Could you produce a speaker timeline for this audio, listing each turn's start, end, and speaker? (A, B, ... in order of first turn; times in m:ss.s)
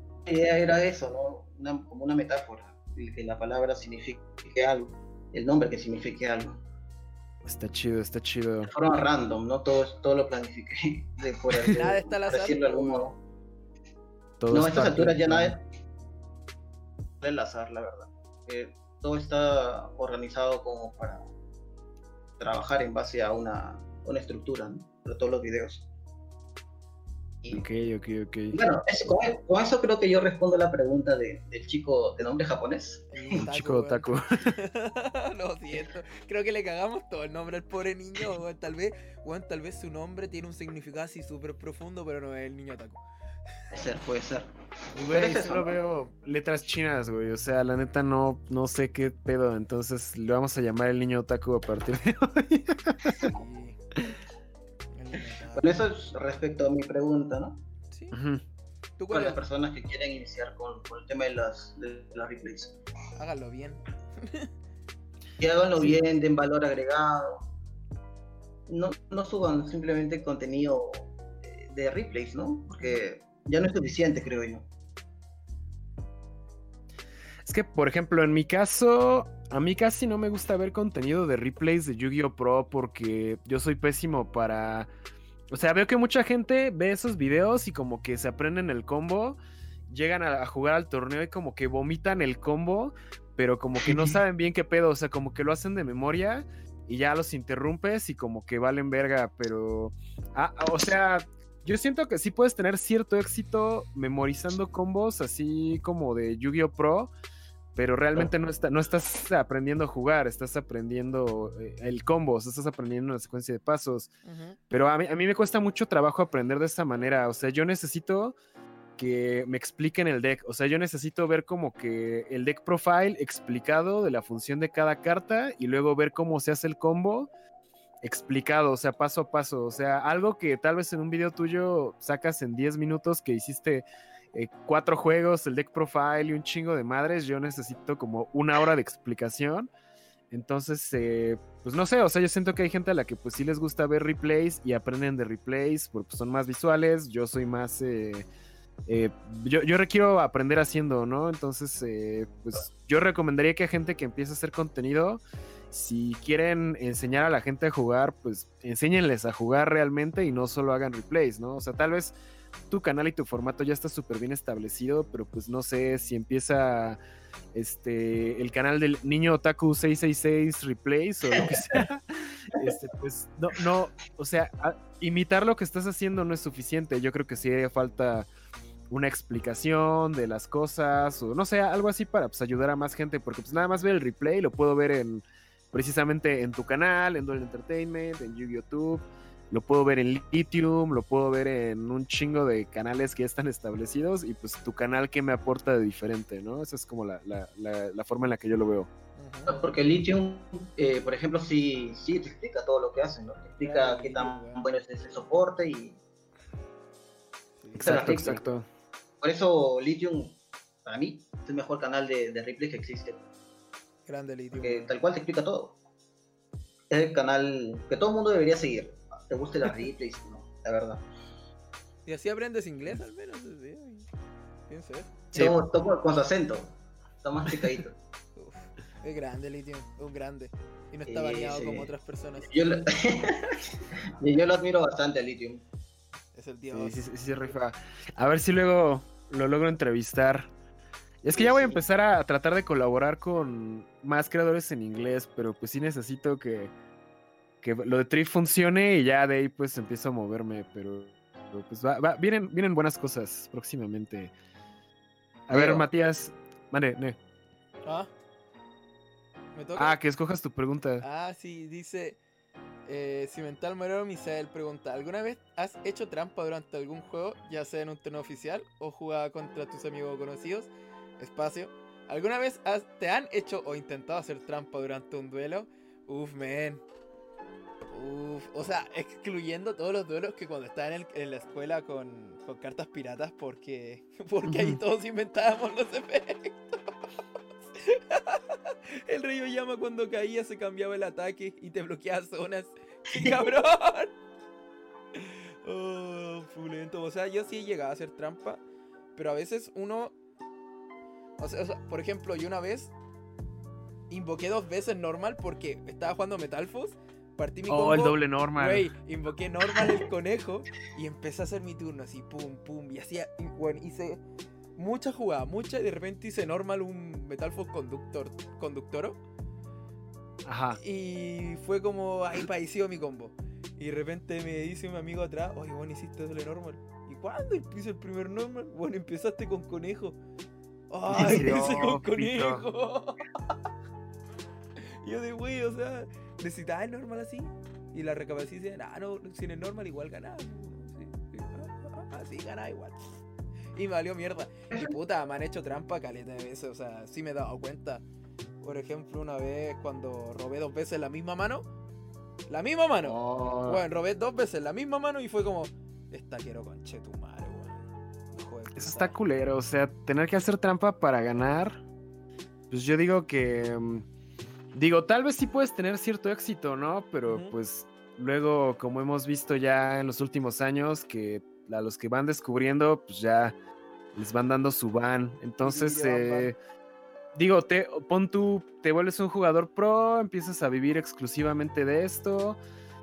0:00.2-0:06.6 A
0:07.4-0:08.7 B
0:08.6-0:13.2 A
0:11.7-0:13.1 C
0:14.4-0:15.6 B
0:14.5-0:15.6 A
0:17.2-0:21.2 A
0:22.4-0:25.8 A
0:27.5-0:28.6 B
0:28.5-0:33.5 A
0:33.1-0:43.0 C
0:33.4-0:34.5 B
0:43.7-0:45.8 A
0:44.9-0:53.3 B
0:53.1-0:53.8 C
0:55.0-0:55.8 C
0:55.5-0:57.6 A
0:58.1-0:58.4 B
0:59.0-0:59.4 C
0:59.1-1:02.8 A
1:03.2-1:04.5 C
1:05.4-1:07.4 A
1:08.7-1:14.7 A
1:17.4-1:24.9 B
1:25.5-1:29.4 B
1:29.9-1:47.1 B
1:33.8-1:34.2 A
1:47.7-1:54.1 B
1:54.2-1:54.6 C
1:54.7-1:58.3 B
1:59.0-2:07.3 B
2:08.0-2:19.7 B
2:20.3-2:28.2 B
2:28.9-2:42.2 B
2:42.7-2:47.0 B
2:47.5-2:58.3 B
2:51.3-2:51.8 A
2:58.9-3:18.9 B
3:19.2-3:19.6 C
3:19.5-3:26.0 A
3:23.6-3:24.6 C
3:27.6-3:28.1 C
3:27.8-3:28.4 A
3:27.8-3:28.6 B
3:29.2-3:33.2 A
3:34.1-3:34.9 C
3:34.6-3:35.8 A
3:36.9-3:41.0 A
3:42.0-3:44.1 C
3:44.7-3:45.1 C
3:45.3-3:48.0 A
3:48.4-3:52.6 C
3:51.1-3:51.9 A
3:52.5-3:55.6 A
3:56.3-3:57.0 C
3:56.7-4:00.5 B
4:01.2-4:06.7 B
4:01.3-4:01.8 A
4:07.6-4:14.3 B
4:15.5-4:17.2 B
4:17.8-4:18.1 C
4:19.5-4:20.0 C
4:19.8-4:21.0 B
4:21.0-4:22.2 C
4:22.9-4:36.8 C
4:37.9-4:46.8 C
4:44.4-4:44.8 B
4:47.7-4:54.1 C
4:53.1-4:53.4 A
4:55.1-4:58.6 C
4:59.1-5:00.1 C
5:01.4-5:02.9 C
5:04.1-5:14.2 C
5:07.7-5:08.8 B
5:14.8-5:19.2 C
5:20.4-5:20.8 B
5:20.8-5:30.2 C
5:30.9-5:33.2 C
5:31.1-5:32.7 B
5:34.8-5:43.2 C
5:43.7-5:48.0 C
5:48.6-5:51.6 C
5:52.5-5:59.1 C
5:53.0-5:53.8 B
5:58.7-6:01.8 B
6:02.7-6:04.1 B
6:04.7-6:13.5 B
6:07.2-6:07.5 C
6:14.1-6:16.6 B
6:15.6-6:16.5 C
6:17.3-6:22.6 B